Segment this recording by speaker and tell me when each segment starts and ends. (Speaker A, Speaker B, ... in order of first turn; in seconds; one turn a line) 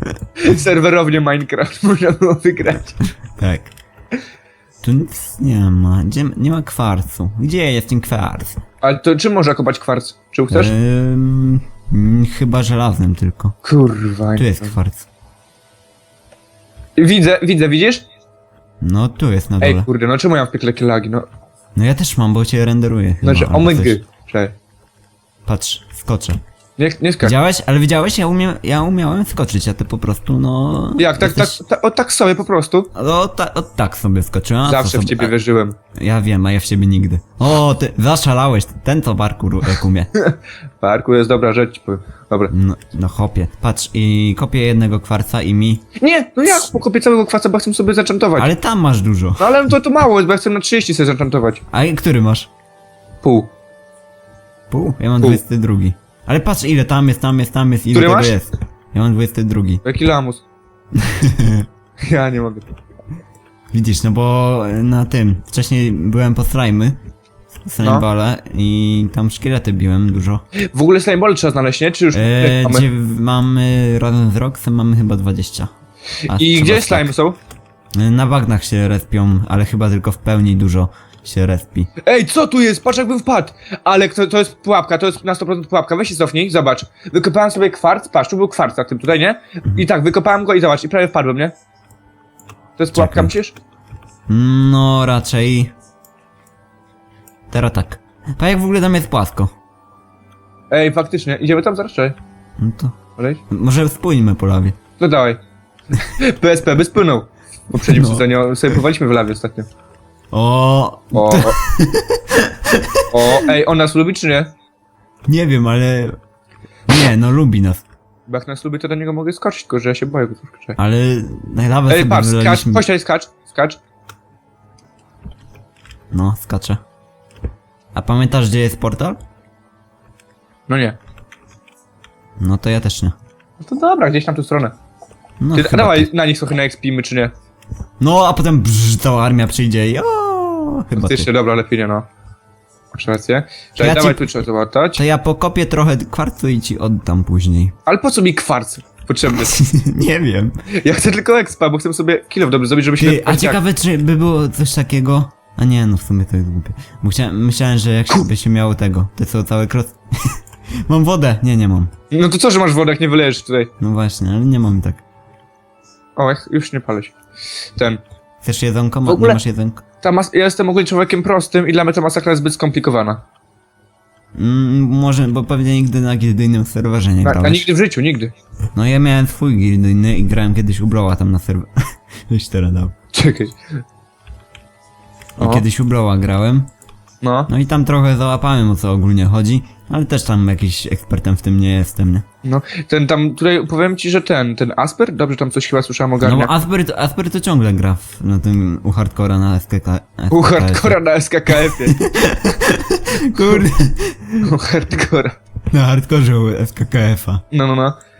Speaker A: 0.4-3.1
Speaker B: 3.4-3.7
Speaker B: 4.8-8.6
Speaker A: 8.8-10.7
Speaker B: 10.5-13.5
Speaker A: 13.6-14.7
Speaker B: 14.3-15.0
Speaker A: 17.0-18.0
Speaker B: 18.8-19.9
Speaker A: 19.6-21.2
Speaker B: 21.8-23.9
Speaker A: 23.2-24.5
Speaker B: 25.4-26.4
Speaker A: 26.8-27.3
Speaker B: 27.2-31.6
Speaker A: 31.0-32.9
Speaker B: 32.9-35.3
Speaker A: 34.6-35.8
Speaker B: 36.0-40.1
Speaker A: 40.1-42.5
Speaker B: 42.5-45.8
Speaker A: 46.0-48.5
Speaker B: 48.4-49.6
Speaker A: 49.4-51.6
Speaker B: 51.7-52.5
Speaker A: 53.2-53.5
Speaker B: 54.7-59.8
Speaker A: 57.9-58.3
Speaker A: 59.8-60.4
Speaker B: 60.9-61.7
Speaker A: 62.0-62.7
Speaker B: 63.7-67.0
Speaker B: 67.6-70.4
Speaker A: 67.8-68.0
Speaker A: 70.7-72.8
Speaker B: 72.1-75.7
Speaker A: 76.2-77.4
Speaker B: 76.3-77.1
Speaker B: 78.0-81.9
Speaker A: 82.0-91.5
Speaker A: 92.8-93.5
Speaker B: 92.9-93.3
Speaker B: 94.3-95.7
Speaker B: 97.5-99.5
Speaker A: 100.7-102.2
Speaker B: 102.6-103.0
Speaker B: 103.5-104.8
Speaker A: 105.0-105.4
Speaker A: 105.9-109.7
Speaker B: 107.8-108.8
Speaker B: 110.3-113.3
Speaker A: 111.1-111.5
Speaker A: 113.1-114.5
Speaker B: 115.3-116.2
Speaker B: 116.9-117.8
Speaker A: 118.3-120.8
Speaker B: 120.8-122.8
Speaker A: 121.9-123.8
Speaker B: 126.1-126.8
Speaker B: 127.9-129.2
Speaker A: 130.7-130.9
Speaker B: 132.4-133.1
Speaker A: 133.6-134.7
Speaker B: 135.4-136.1
Speaker A: 135.5-137.3
Speaker B: 138.0-141.3
Speaker A: 140.9-142.1
Speaker A: 142.9-145.0
Speaker B: 143.8-144.3
Speaker B: 144.9-147.7
Speaker A: 147.8-149.5
Speaker B: 149.4-150.6
Speaker A: 150.8-153.6
Speaker B: 153.0-161.9
Speaker A: 162.1-163.7
Speaker B: 163.8-165.0
Speaker A: 166.2-167.2
Speaker A: 167.8-168.0
Speaker B: 168.4-169.8
Speaker A: 169.1-169.4
Speaker A: 170.0-173.2
Speaker B: 174.3-177.7
Speaker A: 177.2-178.3
Speaker B: 178.7-182.9
Speaker A: 183.1-183.5
Speaker B: 185.4-186.7
Speaker A: 185.4-185.6
Speaker A: 187.2-187.5
Speaker B: 187.5-192.2
Speaker A: 192.4-196.5
Speaker B: 196.2-201.0
Speaker A: 200.3-202.0
Speaker B: 201.5-204.5
Speaker A: 204.4-205.4
Speaker B: 205.7-207.4
Speaker A: 207.5-207.9